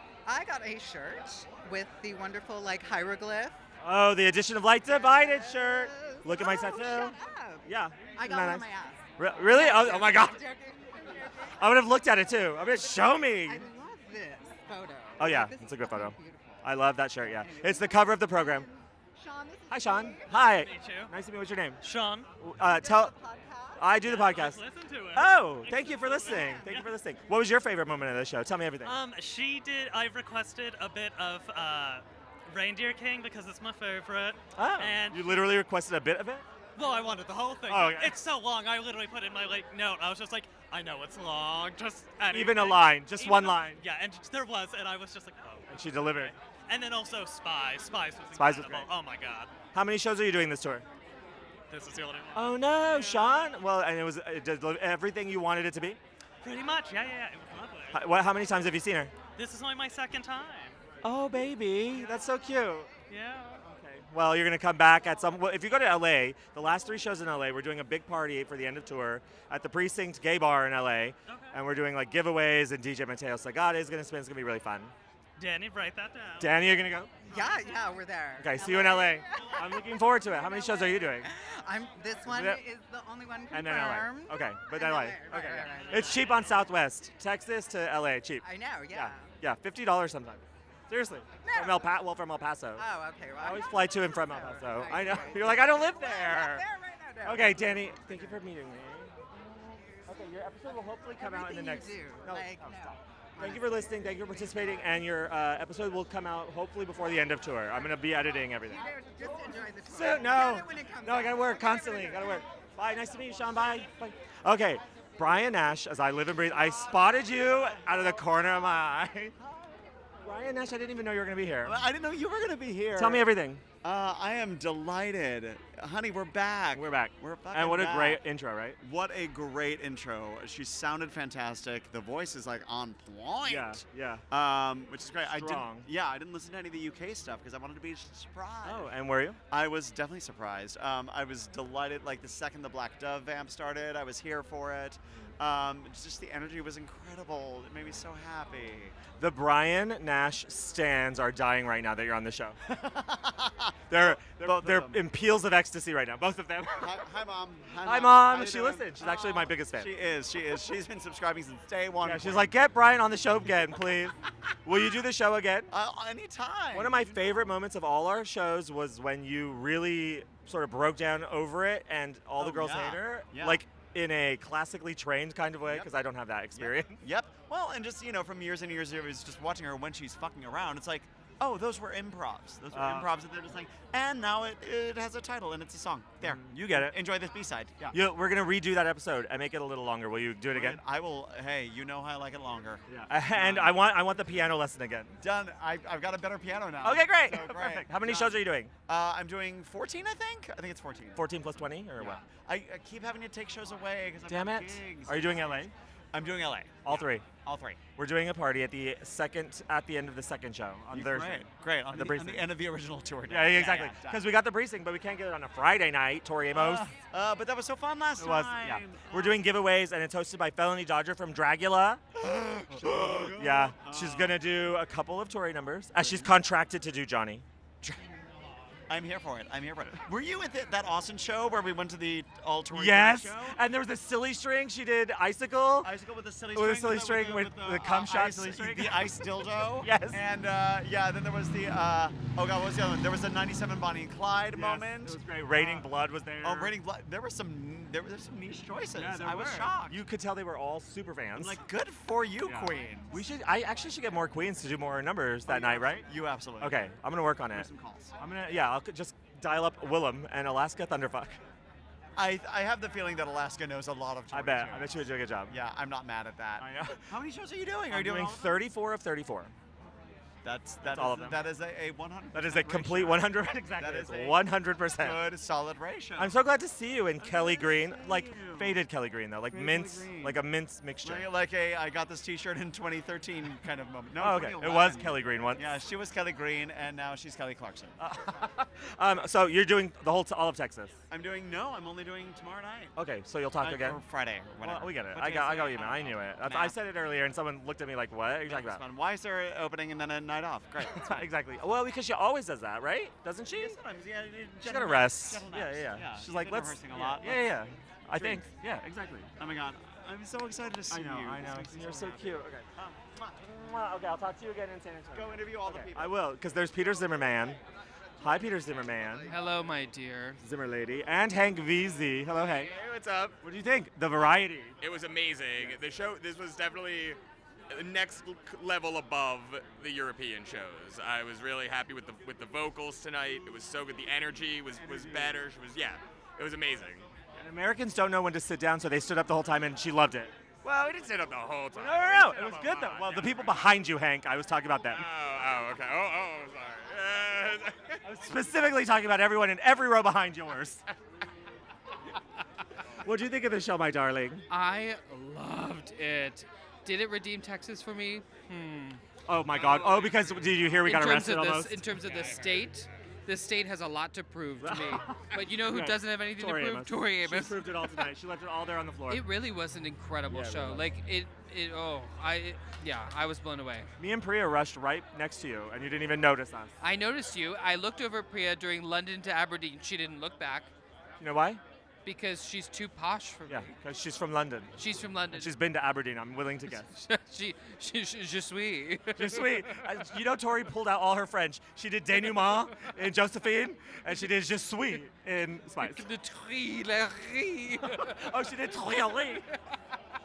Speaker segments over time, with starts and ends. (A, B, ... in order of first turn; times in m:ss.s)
0:00.3-0:03.6 A
0:03.8-0:08.7 B
0:04.9-0:11.6 A
0:09.2-0:10.4 B
0:11.6-0:13.7 B
0:13.4-0:16.7 A
0:15.2-0:18.7 B
0:17.2-0:20.3 A
0:19.7-0:21.8 B
0:20.3-0:21.1 C
0:21.8-0:22.3 C
0:22.4-0:23.1 B
0:22.6-0:23.9 A
0:23.8-0:24.6 B
0:24.0-0:26.9 C
0:25.1-0:29.0 B
0:26.3-0:26.7 A
0:28.8-0:35.5 C
0:34.6-0:36.4 B
0:36.8-0:49.5 C
0:37.7-0:38.2 B
0:42.3-0:43.8 B
0:45.7-0:46.3 B
0:48.3-0:48.9 B
0:49.7-0:50.9 B
0:51.7-0:53.4 C
0:52.3-0:56.0 B
0:56.4-0:58.0 C
0:57.9-0:59.1 B
0:59.4-1:00.8 C
1:01.0-1:02.9 B
1:01.9-1:02.2 C
1:03.1-1:03.6 C
1:03.7-1:14.9 B
1:11.3-1:11.6 C
1:15.4-1:16.7 C
1:16.4-1:17.3 B
1:17.3-1:26.4 A
1:17.3-1:17.8 C
1:18.4-1:21.3 B
1:22.2-1:22.6 B
1:23.5-1:32.8 B
1:28.4-1:29.3 A
1:31.4-1:31.9 A
1:32.8-1:38.4 A
1:33.4-1:36.6 B
1:37.2-1:39.2 B
1:39.4-1:40.0 A
1:40.1-1:42.8 B
1:41.2-1:44.7 A
1:43.4-1:48.9 B
1:48.6-1:52.4 A
1:49.9-1:59.3 B
1:59.4-1:59.8 A
2:00.2-2:01.8 B
2:01.6-2:03.3 D
2:02.9-2:03.6 B
2:03.8-2:08.2 D
2:06.7-2:08.8 B
2:08.8-2:18.9 D
2:13.5-2:14.2 B
2:15.3-2:15.9 B
2:18.6-2:19.4 B
2:19.5-2:29.0 D
2:29.2-2:32.6 B
2:32.8-2:35.1 D
2:33.9-2:37.0 B
2:36.7-2:42.7 D
2:37.8-2:39.9 B
2:42.0-2:45.7 B
2:45.7-2:47.4 D
2:46.7-2:57.0 B
2:52.4-2:53.6 D
2:55.6-2:55.9 D
2:56.6-3:08.0 D
3:02.7-3:03.1 B
3:06.2-3:07.0 B
3:07.9-3:10.8 B
3:10.5-3:13.9 D
3:13.1-3:15.2 B
3:15.2-3:21.2 D
3:16.8-3:18.7 B
3:21.2-3:22.2 B
3:22.0-3:27.8 D
3:24.3-3:25.7 B
3:26.8-3:27.2 B
3:28.0-3:32.5 B
3:30.9-3:34.3 D
3:33.3-3:36.9 B
3:36.5-3:39.5 D
3:38.2-3:42.0 B
3:42.2-3:44.4 D
3:42.7-3:48.0 B
3:46.0-3:46.3 D
3:48.9-3:53.6 D
3:52.7-3:55.9 B
3:55.8-4:10.0 D
3:56.5-4:00.2 B
4:04.5-4:06.7 B
4:09.0-4:11.6 B
4:11.4-4:13.3 D
4:12.4-4:16.1 B
4:15.5-4:16.8 D
4:16.6-4:21.4 B
4:17.5-4:18.1 D
4:22.2-4:28.6 D
4:24.3-4:25.6 B
4:26.6-4:27.0 B
4:27.9-4:29.5 B
4:30.4-4:36.3 D
4:30.8-4:31.5 B
4:32.3-4:35.2 B
4:36.2-4:41.3 B
4:37.2-4:38.8 D
4:39.5-4:40.4 D
4:41.0-4:48.0 D
4:44.2-4:45.7 B
4:48.0-4:51.0 B
4:51.1-4:52.9 D
4:53.0-4:54.0 B
4:53.6-4:56.8 D
4:54.6-4:58.8 B
4:58.5-5:01.2 D
5:00.9-5:03.8 B
5:03.5-5:07.6 D
5:04.6-5:09.3 B
5:08.2-5:08.4 D
5:09.4-5:13.4 D
5:10.9-5:12.6 B
5:13.4-5:17.6 B
5:15.1-5:16.2 D
5:18.2-5:19.3 B
5:19.3-5:20.4 E
5:20.4-5:22.7 B
5:22.6-5:23.4 F
5:23.4-5:24.8 B
5:24.8-5:27.2 F
5:27.7-5:37.1 F
5:34.8-5:35.4 B
5:37.4-5:40.3 B
5:40.6-5:43.7 F
5:41.8-5:45.0 B
5:44.9-5:48.0 F
5:48.0-5:50.8 B
5:53.0-5:54.4 B
5:54.5-5:59.0 E
5:59.3-6:01.9 B
5:59.7-6:00.4 F
6:00.7-6:08.1 E
6:04.6-6:09.2 B
6:09.1-6:13.9 E
6:10.3-6:10.9 B
6:14.0-6:16.7 B
6:16.8-6:20.7 E
6:21.2-6:21.6 B
6:22.0-6:23.7 E
6:23.5-6:24.7 B
6:24.8-6:25.6 E
6:25.3-6:26.9 B
6:26.7-6:30.0 E
6:29.2-6:36.1 B
6:35.8-6:39.4 E
6:38.0-6:39.4 B